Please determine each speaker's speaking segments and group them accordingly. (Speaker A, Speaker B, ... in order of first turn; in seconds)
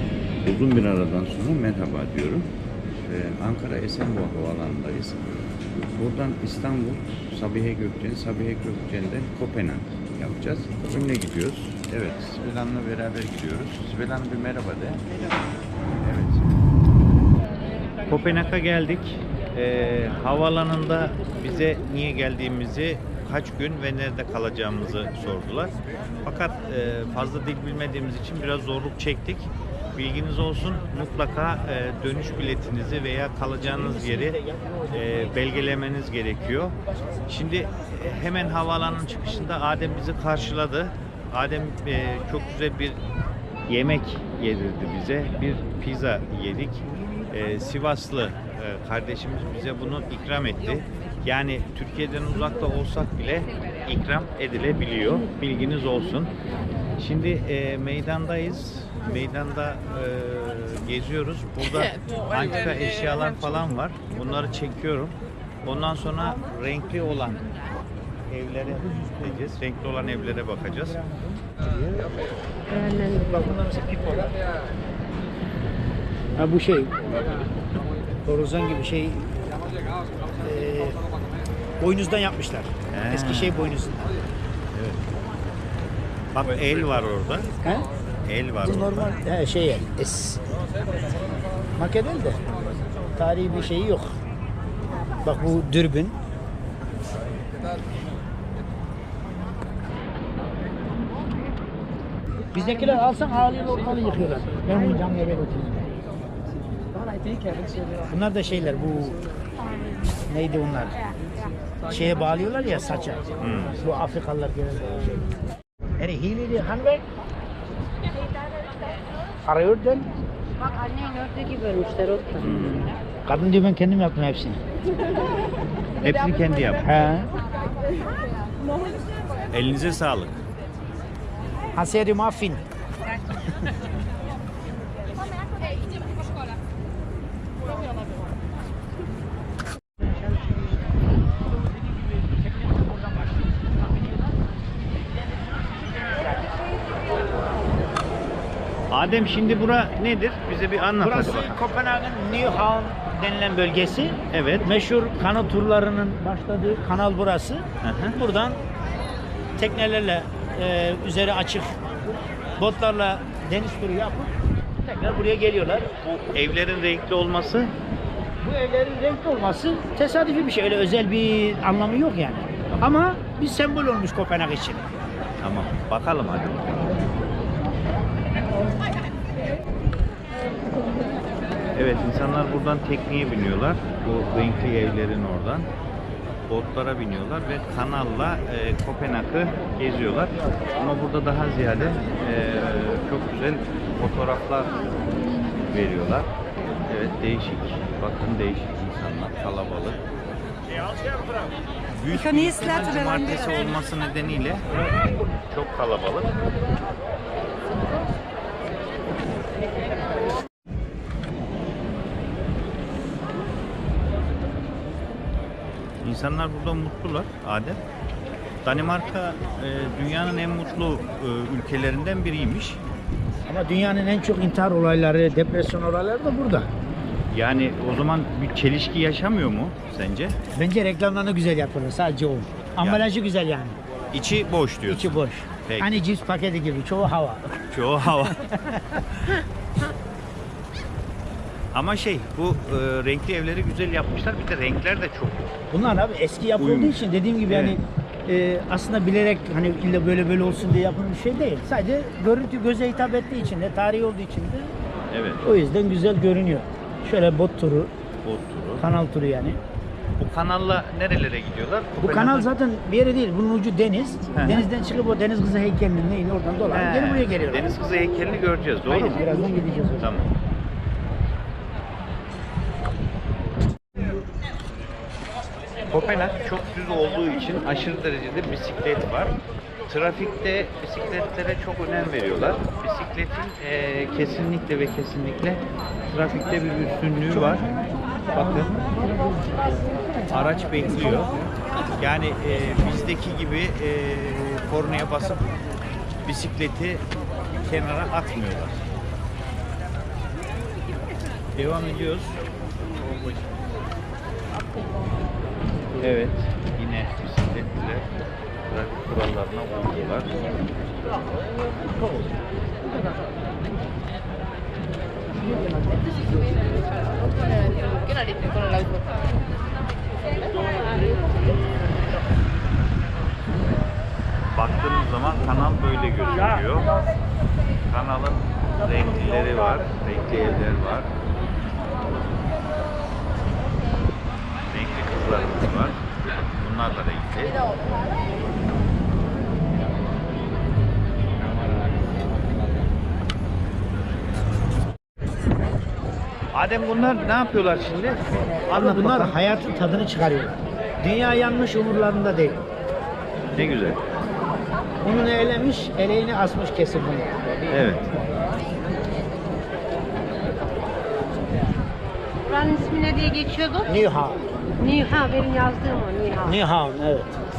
Speaker A: 0.4-15.1, 16.0-16.4, 18.1-34.4, 34.9-43.0, 43.7-56.3, 57.0-67.5, 68.3-71.0, 73.7-74.3, 82.9-83.7, 84.7-85.0, 86.3-87.5, 88.3-89.2, 113.4-113.8, 122.4-122.9, 126.0-127.1, 129.5-130.3, 148.9-151.6, 154.3-154.7, 157.8-158.2, 166.0-167.7, 172.7-173.0, 175.4-177.0, 181.8-185.7, 186.5-194.8, 195.7-196.3, 196.8-200.0, 201.9-204.8, 205.5-206.3, 216.0-217.8, 218.6-222.8, 227.3-230.4, 234.1-236.0, 237.7-238.7, 241.7-245.5, 246.6-247.8, 255.1-255.4, 258.2-258.8, 260.2-262.5, 264.3-264.7, 266.7-269.3, 270.0-270.3, 275.9-287.7, 288.3-288.8, 290.3-291.3, 292.0-295.5, 296.2-297.1, 297.6-298.9, 301.6-302.4, 306.0-308.1, 308.6-310.4, 324.5-326.9, 327.9-331.1, 334.7-336.0, 336.5-337.6, 346.5-349.4, 353.6-354.0, 357.7-358.1
Speaker B: 33.7-35.3, 76.4-76.9, 78.2-79.6, 80.3-81.0, 81.8-84.1, 88.6-90.4, 91.8-92.4, 93.2-94.1, 95.2-96.2, 102.5-105.9, 108.1-109.2, 110.3-111.0, 111.9-115.3, 116.0-117.0, 119.5-120.1, 123.2-124.6, 126.8-127.3, 131.7-132.6, 142.7-143.6, 151.0-157.7, 158.2-158.6, 159.6-161.8, 162.6-164.3, 164.9-165.9, 168.4-174.9, 223.5-226.7, 230.5-233.8, 234.8-239.0, 245.7-254.7, 255.4-257.9, 258.8-259.6, 262.0-267.7, 268.9-270.1, 348.7-352.6, 355.0-357.3, 363.9-364.4, 366.4-367.4
Speaker C: 72.7-73.4, 120.6-122.6, 202.3-203.4, 362.4-363.9, 364.8-366.6